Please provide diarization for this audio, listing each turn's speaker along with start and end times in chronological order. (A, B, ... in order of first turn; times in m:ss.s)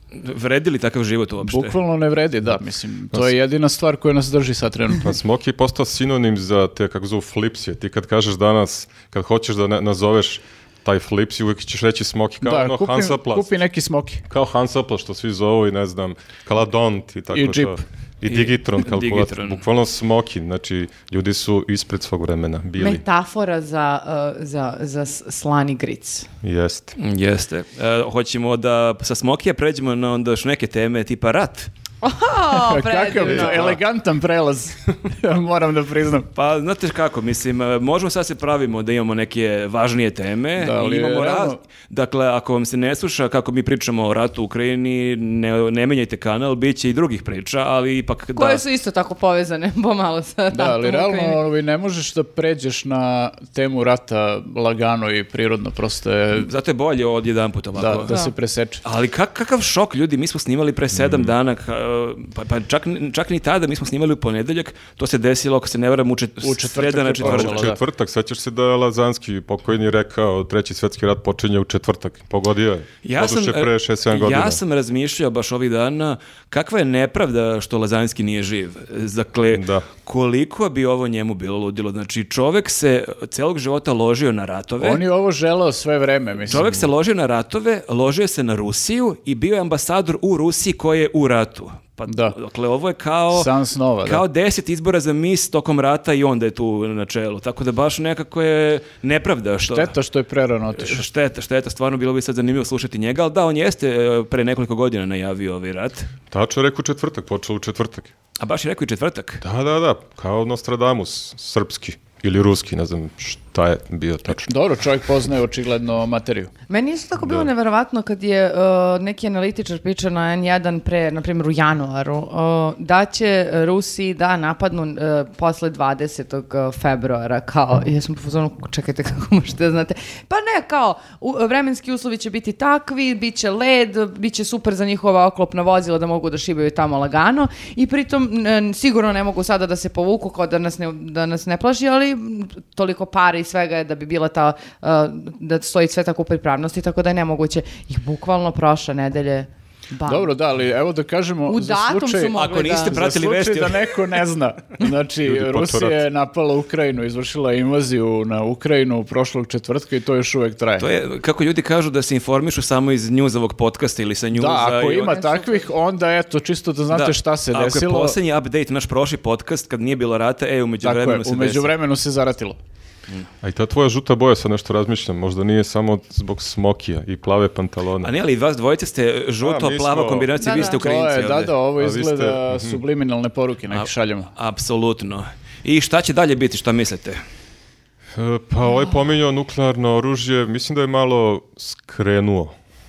0:00.1-0:01.8 A
0:01.4-0:05.1 B
0:05.0-0:13.5 C
0:12.4-0:14.2 B
0:14.3-0:23.0 C
0:17.3-0:17.8 B
0:18.3-0:19.6 A
0:22.8-0:26.3 D
0:26.4-0:27.0 C
0:27.0-0:31.7 A
0:32.0-0:33.8 D
0:32.5-0:36.3 B
0:33.3-0:33.7 C
0:36.3-0:48.6 A
0:40.6-0:41.6 B
0:48.4-0:51.4 D
0:50.5-0:56.5 B
0:56.3-0:58.1 A
0:57.7-0:58.8 B
0:58.8-1:07.7 A
1:06.4-1:07.8 B
1:07.2-1:14.6 C
1:13.0-1:25.0 A
1:19.5-1:19.8 C
1:24.8-1:26.8 B
1:26.5-1:33.5 A
1:32.1-1:32.4 B
1:33.3-1:34.2 B
1:34.0-1:39.9 A
1:39.6-1:41.0 B
1:40.8-1:46.1 A
1:46.3-1:48.1 C
1:48.4-1:49.4 A
1:49.4-1:54.5 C
1:54.4-1:56.5 B
1:56.7-2:30.3 D
1:57.2-1:57.5 C
2:30.0-2:40.9 B
2:31.5-2:32.9 D
2:32.3-2:34.0 A
2:35.2-2:36.0 C
2:40.8-2:45.2 A
2:44.3-2:48.2 B
2:45.0-2:45.7 D
2:46.9-2:51.7 A
2:50.8-2:52.6 B
2:53.4-2:58.1 C
2:58.0-3:01.5 A
2:59.4-3:00.3 C
3:00.4-3:00.8 D
3:00.7-3:04.3 B
3:01.8-3:02.8 C
3:03.7-3:07.2 A
3:08.2-3:12.5 C